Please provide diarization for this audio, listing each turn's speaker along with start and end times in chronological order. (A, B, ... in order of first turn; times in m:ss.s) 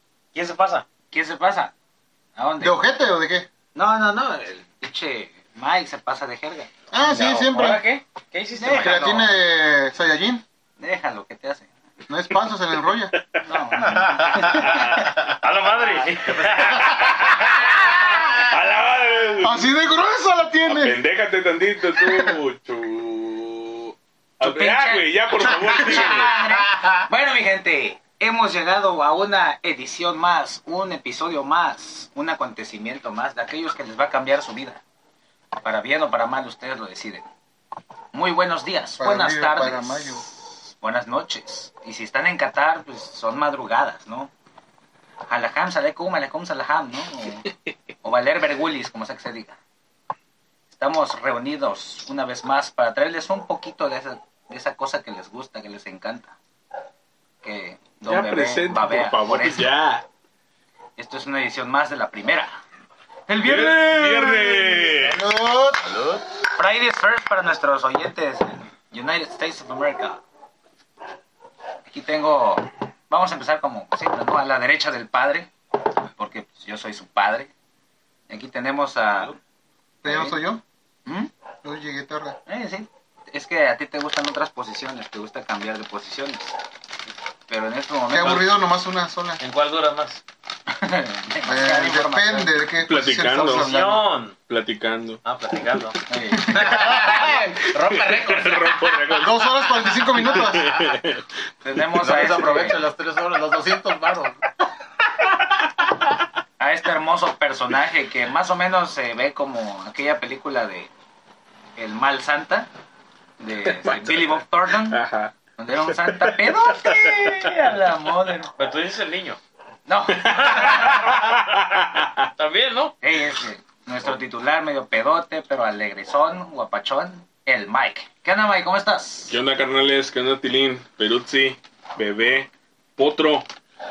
0:00.3-0:00.9 A
0:01.1-0:01.7 B
0:02.4-0:02.8 B
0:02.6-0:03.5 C
0:03.7-0:06.7 B
0:06.9-0:07.8 C
0:07.0-0:09.3 A
0:08.6-0:09.3 B
0:08.7-0:10.4 C
0:10.8-0:11.7 B
0:12.1-0:13.1 C
0:13.1-0:13.4 D
0:13.4-0:14.9 B
0:13.9-0:14.7 E
0:14.4-0:15.1 D
0:15.2-0:17.4 A
0:16.4-0:16.9 E
0:16.7-0:19.7 D
0:19.4-0:21.0 C
0:20.6-0:26.3 D
0:24.4-0:34.8 B
0:35.6-0:37.3 B
0:38.1-0:44.3 B
0:39.0-0:40.2 C
0:45.3-0:47.5 B
0:48.0-0:49.6 B
0:50.7-0:56.4 B
0:57.4-0:59.7 B
0:58.0-1:00.0 D
1:01.0-1:02.6 B
1:03.3-1:05.0 B
1:03.4-1:05.2 D
1:04.8-1:06.0 C
1:06.6-1:10.2 B
1:11.9-1:15.5 B
1:16.1-1:17.5 B
1:18.3-1:19.4 B
1:20.0-1:20.4 B
1:20.0-1:20.6 C
1:21.0-1:21.3 B
1:21.6-1:22.4 C
1:22.4-1:26.5 B
1:27.5-1:28.5 B
1:28.1-1:29.4 C
1:29.4-1:30.2 A
1:30.7-1:32.5 B
1:31.4-1:34.0 C
1:32.8-1:33.8 D
1:33.6-1:34.4 A
1:34.4-1:35.2 D
1:35.2-1:36.0 A
1:36.1-1:36.7 B
1:36.4-1:39.2 E
1:37.1-1:41.2 D
1:39.2-1:40.7 C
1:40.0-1:41.0 E
1:41.6-1:42.8 B
1:42.0-1:44.4 E
1:46.6-1:50.9 B
1:51.8-1:52.7 B
1:53.4-1:58.5 B
1:53.6-1:57.5 D
1:58.6-1:59.4 A
1:59.9-2:01.0 B
2:00.1-2:02.3 D
2:00.3-2:02.9 A
2:03.0-2:09.4 B
2:09.3-2:13.5 D